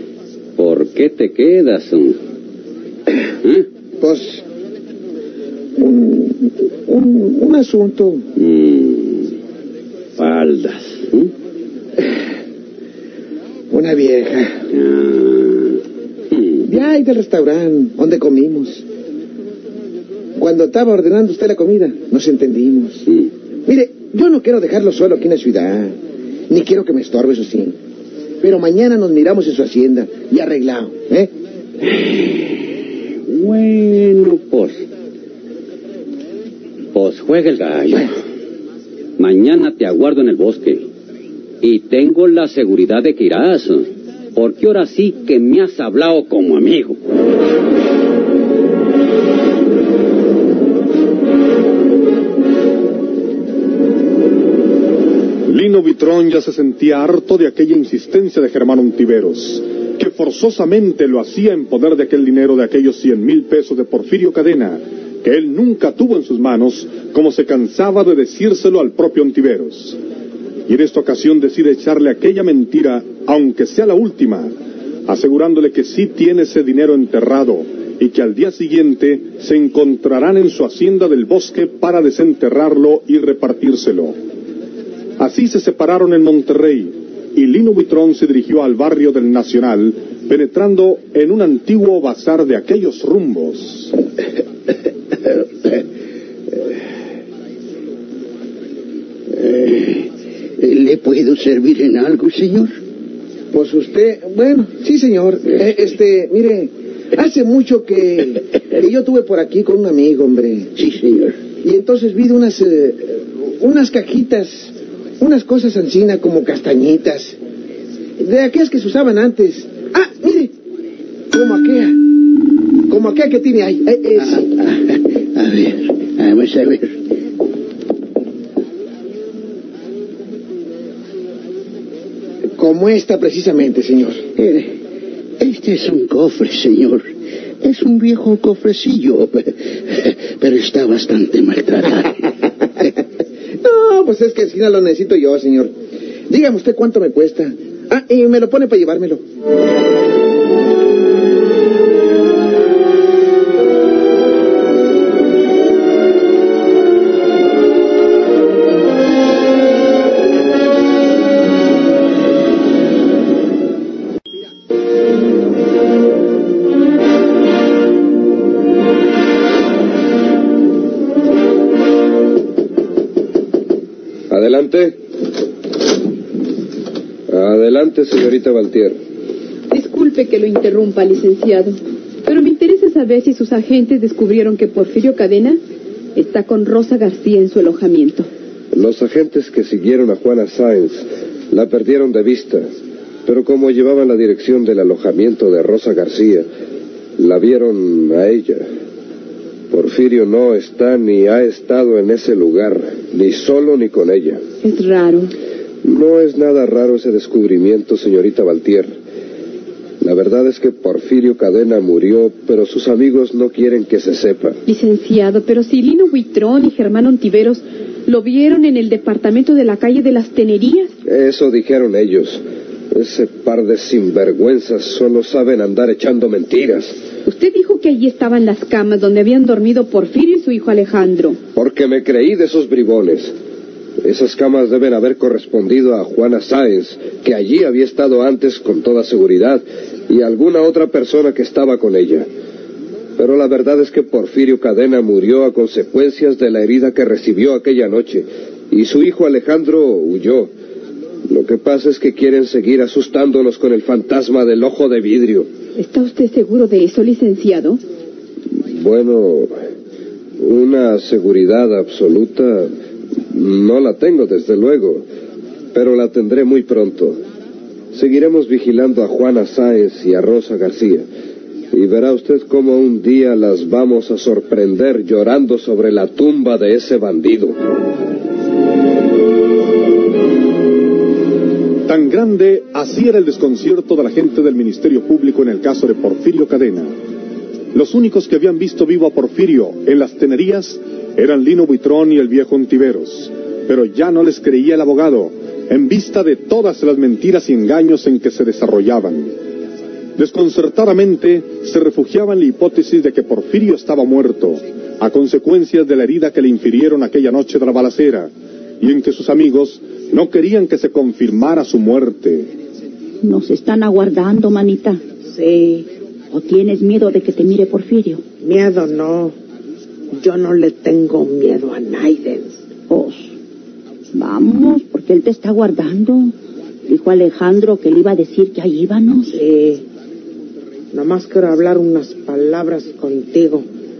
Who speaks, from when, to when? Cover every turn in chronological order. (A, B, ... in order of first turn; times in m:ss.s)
0:00.6-0:02.2 A
0:04.0-0:04.4 B
0:05.8-0:08.2 B
0:08.3-0:09.3 A
0:10.2-0:11.3 A
0:13.7-0:14.6 B
0:14.7-0:15.8 A
0:16.3-0:16.6 A
0:16.7-0:18.8 B
0:20.4-0:23.0 B
0:23.7-0:26.0 B
0:26.5-0:27.7 B
0:28.4-0:31.3 B
0:33.2-0:34.8 A
0:36.9-0:38.1 A
0:39.2-0:40.8 A
0:41.6-0:47.0 A
0:55.4-1:10.0 C
1:10.7-1:14.5 C
1:15.1-1:24.2 C
1:25.2-1:33.9 C
1:39.3-1:42.8 D
1:43.5-1:50.7 B
1:50.8-1:51.4 D
1:51.6-1:57.4 B
1:58.2-2:00.5 B
2:01.3-2:02.0 B
2:02.9-2:04.4 B
2:04.3-2:07.0 D
2:12.6-2:14.4 B
2:14.4-2:14.8 D
2:15.4-2:22.2 D
2:23.6-2:25.7 B
2:26.3-2:29.2 B
2:54.3-2:55.0 E
2:57.3-2:59.0 E
2:59.7-3:05.6 F
3:06.1-3:08.3 F
3:08.7-3:12.7 E
3:13.2-3:16.4 E
3:17.2-3:18.7 E
3:19.7-3:24.4 E
3:24.6-3:25.3 F
3:25.8-3:28.9 E
3:30.0-3:34.6 E
3:34.6-3:40.9 F
3:41.0-3:47.0 E
3:47.2-3:51.4 F
3:51.5-3:53.3 E
3:54.0-4:02.3 E
4:03.2-4:10.5 E
4:11.3-4:15.5 E
4:15.8-4:17.8 F
4:18.5-4:19.6 E
4:20.4-4:22.7 E
4:23.3-4:25.0 E
4:25.7-4:27.2 E
4:27.9-4:31.0 E
4:31.7-4:37.6 E
4:41.9-4:46.9 C
4:47.7-4:59.3 C
5:00.2-5:12.5 C
5:13.2-5:15.0 G
5:15.3-5:15.9 H
5:16.3-5:18.2 G
5:18.4-5:19.3 H
5:20.1-5:22.6 H
5:22.9-5:23.3 G
5:24.1-5:26.3 G
5:26.9-5:29.4 G
5:29.3-5:29.8 H
5:30.9-5:33.6 H